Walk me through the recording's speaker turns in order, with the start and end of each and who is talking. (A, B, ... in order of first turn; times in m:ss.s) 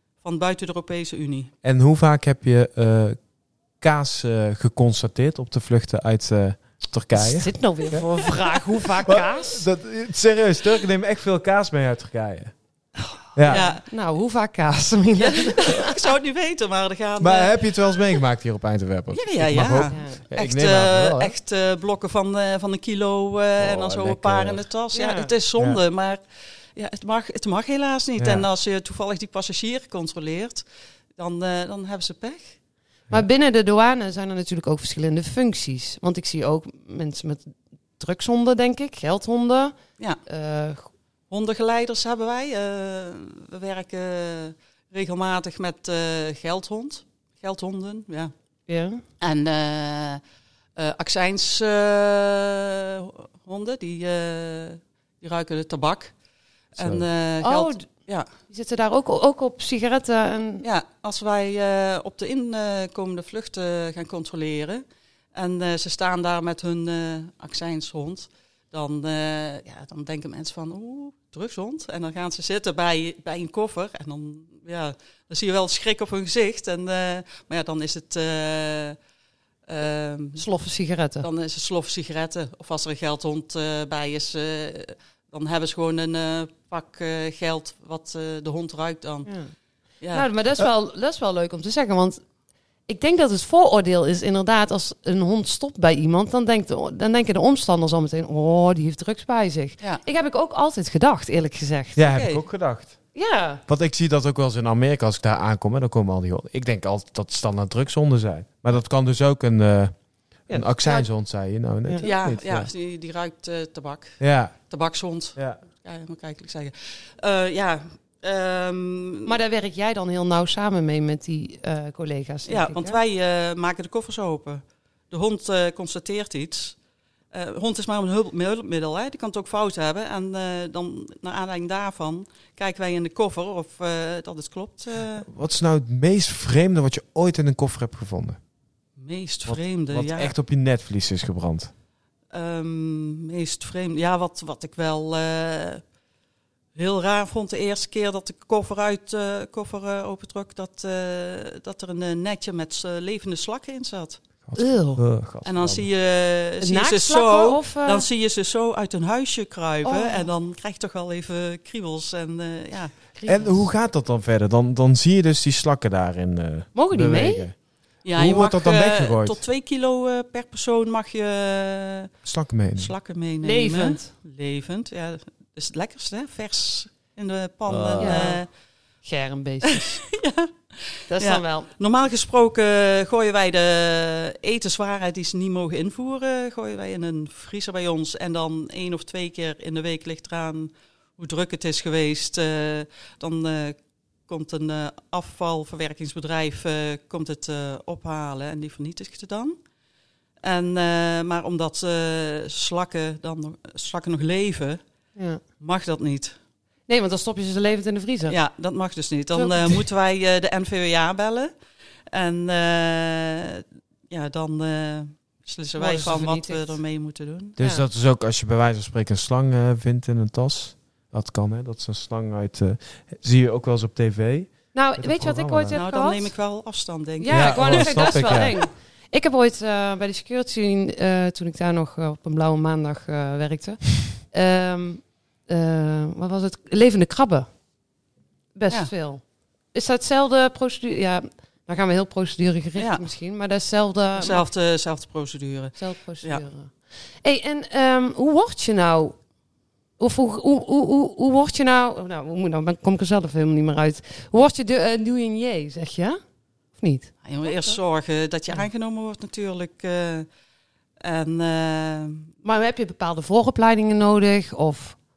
0:00.2-0:01.5 A
0:01.6-0:03.3 B
0:03.8-0:12.6 B
0:07.1-0:09.6 C
0:13.3-0:13.7 B
0:13.4-0:15.9 C
0:13.5-0:13.8 A
0:15.2-0:18.2 A
0:17.2-0:21.3 B
0:19.1-0:32.6 A
0:19.9-0:20.2 C
0:23.6-0:24.6 B
0:24.9-0:25.3 C
0:28.2-0:28.5 B
0:33.1-0:40.9 C
0:41.3-0:48.3 A
0:48.7-0:49.0 C
0:49.2-0:50.2 A
0:50.8-0:58.3 A
0:56.8-0:57.0 B
0:57.4-1:00.6 C
1:00.6-1:19.0 A
1:19.6-1:20.4 A
1:20.4-1:21.3 C
1:21.2-1:29.4 A
1:29.2-1:32.2 C
1:30.0-1:30.3 A
1:32.8-1:42.2 C
1:41.9-1:43.0 B
1:42.1-1:42.4 A
1:43.1-1:43.6 C
1:43.7-1:52.7 B
1:50.5-1:51.1 C
1:52.0-1:59.3 A
1:54.2-1:54.6 B
1:55.3-1:55.6 B
1:59.2-2:03.0 C
2:02.4-2:15.3 A
2:15.2-2:18.4 B
2:19.0-2:20.3 A
2:19.4-2:21.7 B
2:22.3-2:25.9 A
2:26.7-2:34.2 A
2:34.4-2:35.9 B
2:34.6-2:35.0 C
2:35.4-2:43.5 A
2:36.6-2:38.1 C
2:39.8-2:40.3 C
2:43.2-2:43.6 C
2:43.2-2:49.4 B
2:46.7-2:47.5 C
2:48.0-2:52.1 A
2:52.2-2:52.9 B
2:52.7-2:58.5 A
2:53.4-2:54.1 C
2:57.7-2:58.4 B
2:58.0-2:58.5 C
2:59.0-3:00.0 C
3:00.1-3:19.6 A
3:01.1-3:01.7 C
3:20.4-3:24.8 A
3:25.2-3:25.4 C
3:25.6-3:26.4 A
3:26.9-3:28.4 C
3:28.3-3:31.6 A
3:29.3-3:29.8 C
3:32.1-3:37.6 A
3:35.8-3:36.8 C
3:37.6-3:45.8 B
3:37.6-3:37.8 C
3:44.7-3:46.4 C
3:45.7-3:48.6 A
3:47.2-3:57.6 C
3:47.3-3:48.6 B
3:58.5-4:04.5 C
4:02.7-4:03.1 A
4:04.1-4:06.4 A
4:05.8-4:09.2 C
4:10.0-4:16.2 C
4:16.7-4:17.8 C
4:17.2-4:20.3 A
4:21.0-4:22.3 A
4:22.4-4:25.0 C